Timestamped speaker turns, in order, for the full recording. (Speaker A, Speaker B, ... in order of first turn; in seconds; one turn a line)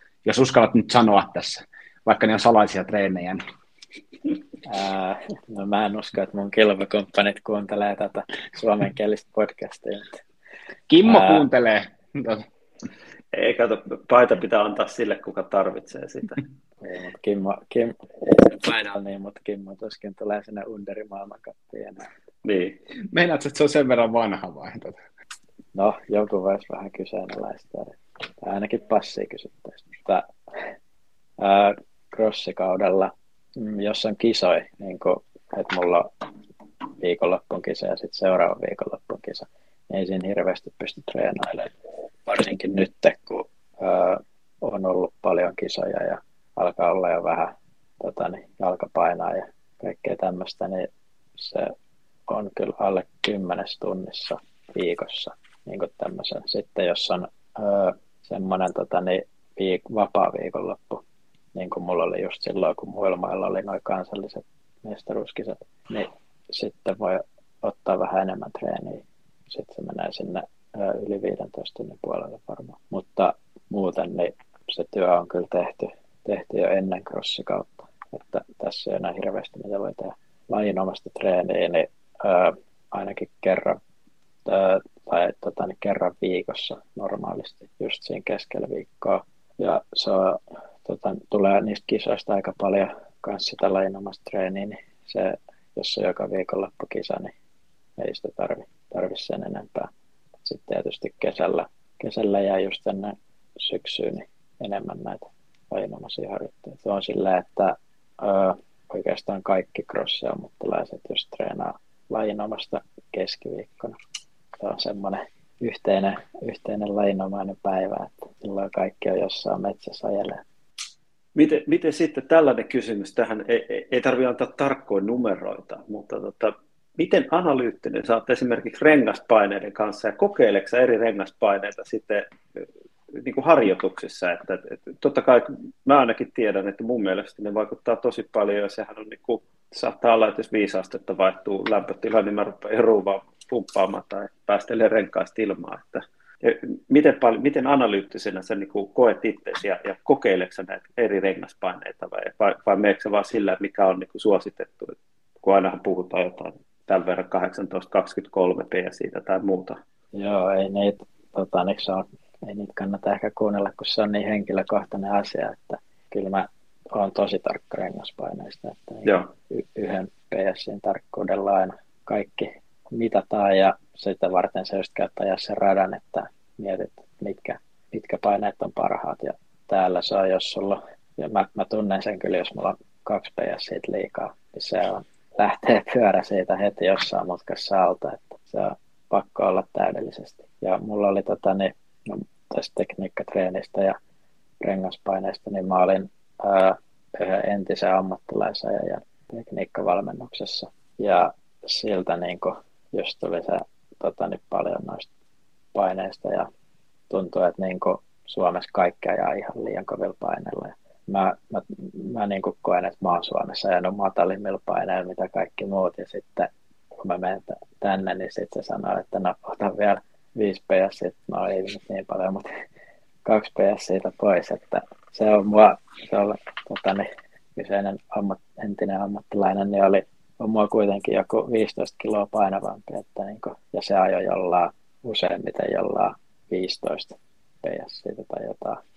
Speaker A: 0.2-3.4
Speaker B: 4.7-10.2
Speaker A: 10.9-12.5
Speaker B: 11.0-11.5
Speaker C: 13.3-16.4
Speaker B: 16.8-22.1
Speaker C: 22.4-22.8
Speaker A: 23.1-25.0
Speaker B: 25.8-30.3
Speaker B: 31.4-36.1
Speaker B: 37.0-41.7
Speaker B: 42.3-51.7
Speaker B: 52.3-61.0
Speaker B: 61.5-83.8
Speaker B: 84.5-97.3
Speaker B: 98.0-99.9
Speaker B: 100.4-114.0
Speaker B: 114.6-120.4
Speaker C: 121.3-159.8
Speaker B: 160.1-194.0
Speaker B: 194.6-205.1
Speaker B: 205.7-206.5
Speaker B: 207.1-222.5
Speaker B: 223.2-238.8